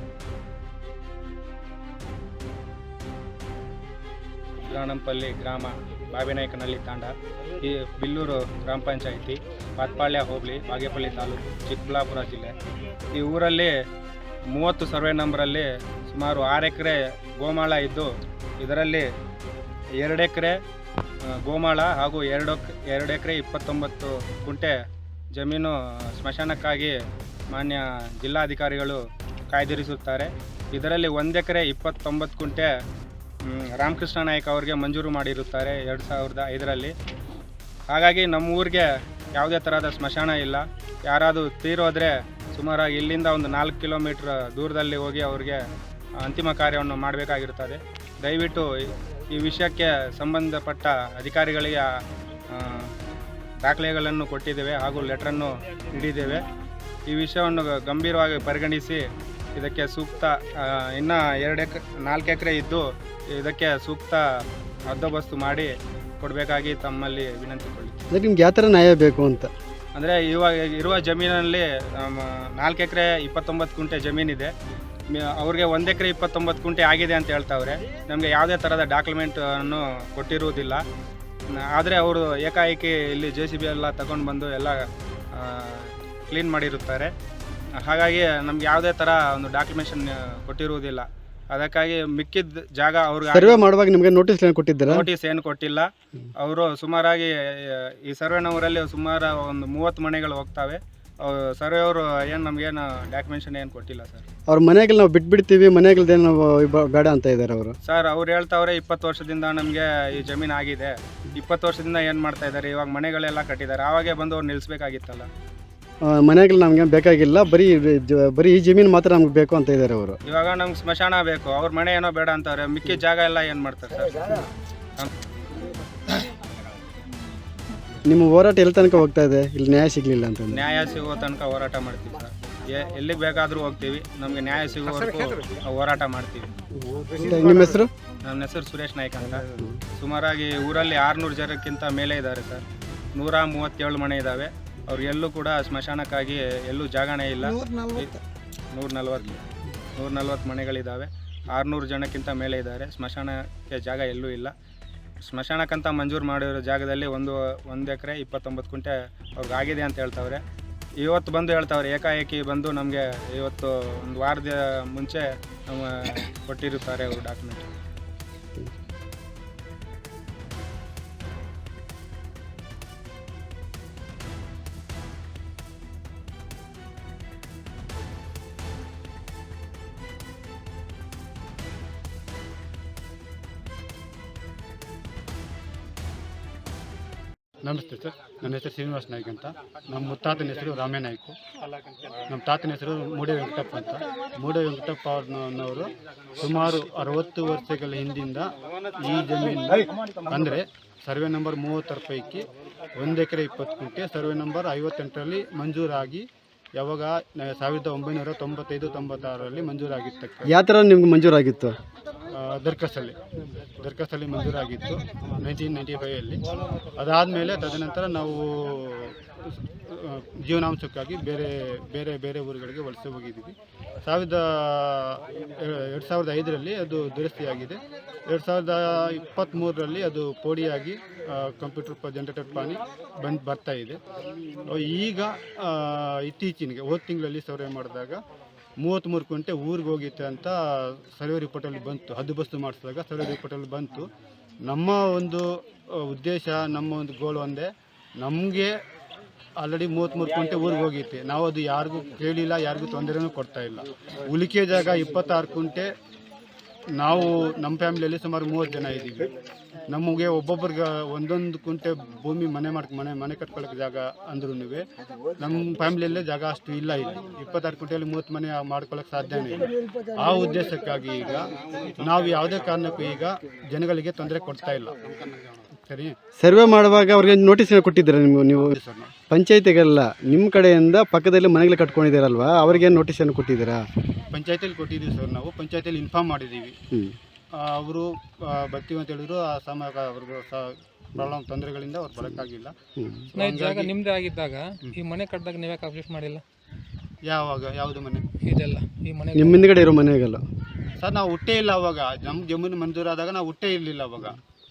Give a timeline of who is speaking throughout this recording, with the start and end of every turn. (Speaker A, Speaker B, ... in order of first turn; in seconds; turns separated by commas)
Speaker A: 4.7-12.5, Speaker A: 13.1-13.7, Speaker A: 14.5-19.1, Speaker A: 20.0-20.6, Speaker A: 21.2-24.8, Speaker A: 25.3-26.9, Speaker A: 27.5-29.0, Speaker A: 29.5-32.7, Speaker A: 33.5-36.9, Speaker A: 37.9-45.6, Speaker A: 46.2-48.7, Speaker A: 49.3-52.0, Speaker A: 52.5-52.9, Speaker A: 53.6-56.4, Speaker A: 57.1-59.0, Speaker A: 59.6-64.2, Speaker A: 64.9-68.0, Speaker B: 68.1-69.5, Speaker A: 70.0-74.5, Speaker A: 75.1-80.8, Speaker A: 81.6-84.8, Speaker A: 85.3-87.1, Speaker A: 87.8-93.6, Speaker B: 93.3-95.1, Speaker A: 94.9-104.2, Speaker B: 104.5-107.8, Speaker A: 107.8-115.3, Speaker B: 116.0-120.2, Speaker A: 120.3-124.4, Speaker B: 128.1-130.6, Speaker A: 130.5-136.5, Speaker B: 137.0-137.9, Speaker A: 138.2-139.4, Speaker A: 140.0-142.6, Speaker A: 143.2-148.2, Speaker A: 148.7-149.4, Speaker A: 150.0-154.5, Speaker A: 155.2-160.4, Speaker A: 161.0-167.7, Speaker C: 187.6-191.4, Speaker C: 192.3-202.4, Speaker C: 203.0-210.5, Speaker B: 210.5-211.8, Speaker C: 212.3-213.1, Speaker C: 213.8-216.4, Speaker C: 217.0-234.0, Speaker C: 234.7-238.2, Speaker C: 238.8-244.1, Speaker C: 244.7-247.7, Speaker C: 248.2-248.7, Speaker C: 249.6-255.9, Speaker C: 257.0-259.3, Speaker C: 259.9-264.9, Speaker C: 265.4-276.2, Speaker B: 276.4-278.8, Speaker C: 278.7-279.1, Speaker B: 279.3-283.8, Speaker C: 284.3-286.8, Speaker B: 286.9-287.2, Speaker C: 287.6-292.8, Speaker B: 293.0-293.3, Speaker C: 293.3-293.9, Speaker D: 293.4-296.4, Speaker C: 297.2-298.2, Speaker D: 298.4-299.7, Speaker B: 299.4-300.4, Speaker C: 301.0-304.4